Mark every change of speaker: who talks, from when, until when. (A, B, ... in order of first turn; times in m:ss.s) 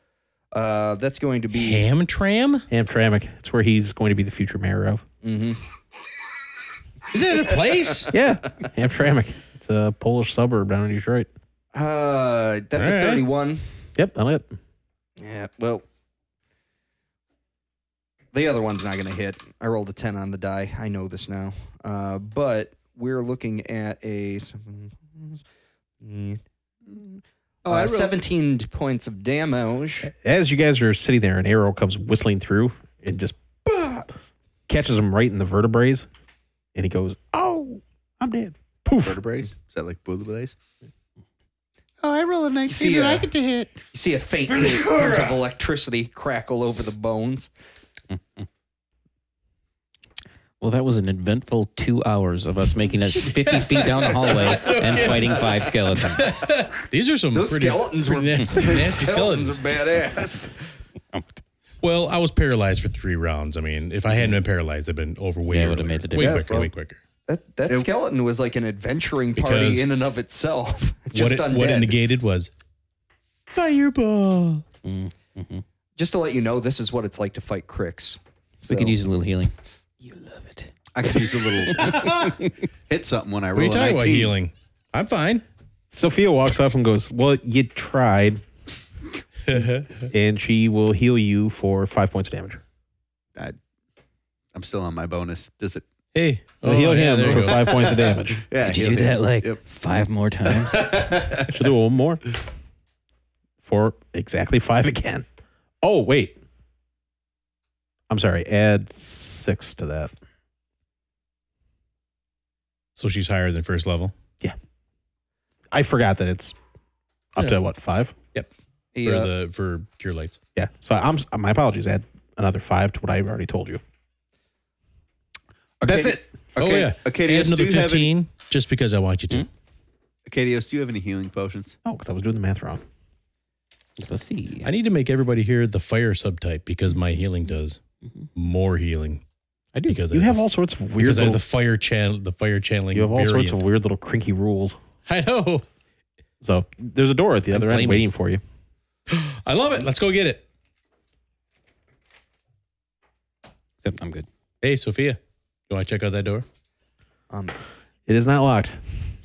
0:00.5-0:01.8 A
0:01.5-0:02.6 B
0:02.7-0:05.0 C
0:05.2-0:05.6 A
0:07.1-0:08.1 B
0:08.1-0:11.3 C
0:11.7-0:13.7 A
0:12.8-0:13.2 B
0:14.0-0:14.6 C
0:15.2-0:15.8 A
0:18.3-0:25.4 A
0:26.0-0:30.1 A
0:27.6-0:28.2 D
0:30.0-0:33.4 C
0:33.6-0:34.1 A
0:34.7-0:36.1 C
0:36.7-0:39.2 C
0:39.0-0:40.6 D
0:42.0-0:43.8 D
0:42.7-0:43.3 A
0:43.9-0:47.5 A
0:44.5-0:45.4 B
0:50.6-0:56.3 E
0:53.3-0:59.6 B
0:54.6-0:55.2 A
0:57.3-1:00.6 A
1:01.1-1:01.4 E
1:01.8-1:07.0 B
1:05.5-1:06.5 E
1:06.2-1:06.7 D
1:07.3-1:12.0 A
1:09.4-1:09.9 B
1:11.1-1:12.5 B
1:13.5-1:14.6 B
1:14.8-1:15.6 E
1:16.0-1:19.0 A
1:18.7-1:20.7 E
1:20.9-1:24.3 D
1:21.8-1:22.3 B
1:21.8-1:22.1 E
1:23.5-1:25.4 B
1:25.9-1:28.4 C
1:29.4-1:30.1 B
1:30.1-1:32.6 C
1:34.5-1:35.8 D
1:36.1-1:37.9 B
1:36.6-1:38.4 C
1:37.2-1:39.6 D
1:38.6-1:41.2 E
1:40.5-1:41.6 D
1:41.5-1:42.2 C
1:43.6-1:45.2 C
1:45.8-1:46.4 C
1:48.1-1:50.1 C
1:53.0-1:54.1 B
1:55.7-1:56.6 C
1:57.3-1:58.1 C
1:58.9-1:59.3 A
1:59.0-2:00.4 B
2:00.6-2:03.8 C
2:05.8-2:08.1 D
2:05.8-2:06.2 C
2:06.6-2:09.5 B
2:10.2-2:11.8 D
2:11.8-2:12.8 C
2:14.0-2:14.7 E
2:14.6-2:17.8 B
2:18.3-2:19.2 B
2:19.7-2:20.0 E
2:19.8-2:20.4 B
2:20.1-2:21.4 C
2:21.0-2:23.6 B
2:22.9-2:24.8 C
2:25.0-2:25.6 B
2:26.4-2:28.4 C
2:27.6-2:28.0 E
2:29.1-2:30.4 B
2:33.8-2:34.3 E
2:34.6-2:36.4 B
2:37.3-2:37.6 A
2:38.1-2:39.0 C